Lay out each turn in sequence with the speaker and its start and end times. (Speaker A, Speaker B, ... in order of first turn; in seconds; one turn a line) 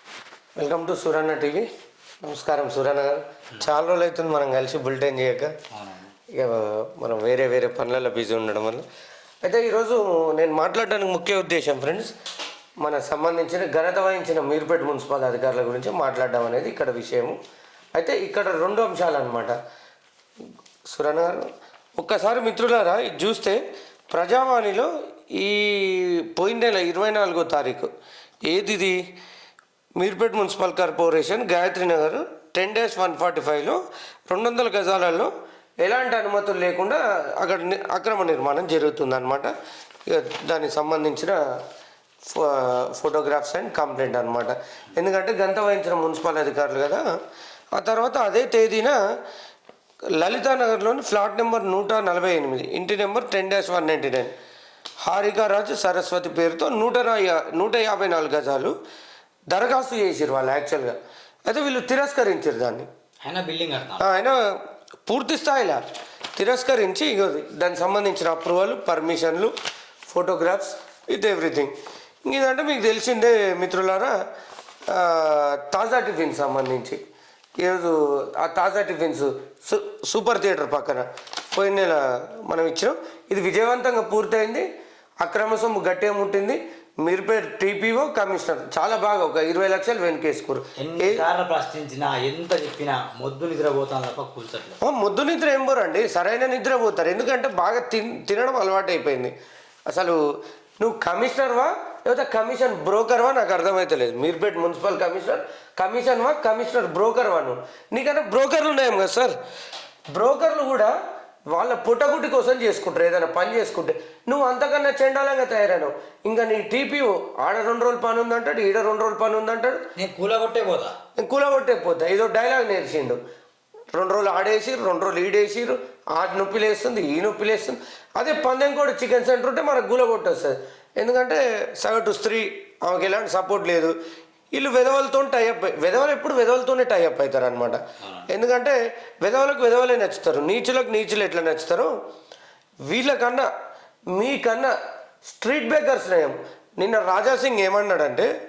Speaker A: 0.6-1.7
Speaker A: 2.2-5.6
Speaker B: 5.7-6.1
Speaker A: 6.3-8.9
Speaker A: 9.4-12.1
Speaker A: 12.8-17.4
Speaker A: 18.0-19.6
Speaker A: 20.9-27.9
Speaker A: 28.4-29.0
Speaker A: 30.0-39.5
Speaker A: 40.1-41.4
Speaker A: 42.3-47.0
Speaker A: 47.7-49.0
Speaker A: 50.2-54.3
Speaker A: 55.0-58.7
Speaker A: 59.5-61.0
Speaker A: 61.5-62.9
Speaker B: 63.2-64.0
Speaker A: 64.0-64.4
Speaker A: 65.1-65.8
Speaker A: 66.4-69.5
Speaker A: 70.1-71.7
Speaker A: 72.3-74.2
Speaker A: 74.9-77.0
Speaker A: 77.6-84.7
Speaker A: 85.2-91.2
Speaker B: 90.8-94.8
Speaker A: 94.8-99.3
Speaker A: 99.9-100.2
Speaker A: 100.8-109.4
Speaker A: 110.1-111.0
Speaker A: 111.5-119.8
Speaker B: 120.0-121.0
Speaker A: 121.2-123.2
Speaker A: 124.0-133.9
Speaker A: 134.5-141.9
Speaker B: 138.0-138.3
Speaker A: 142.9-143.5
Speaker A: 144.1-144.8
Speaker A: 145.3-148.3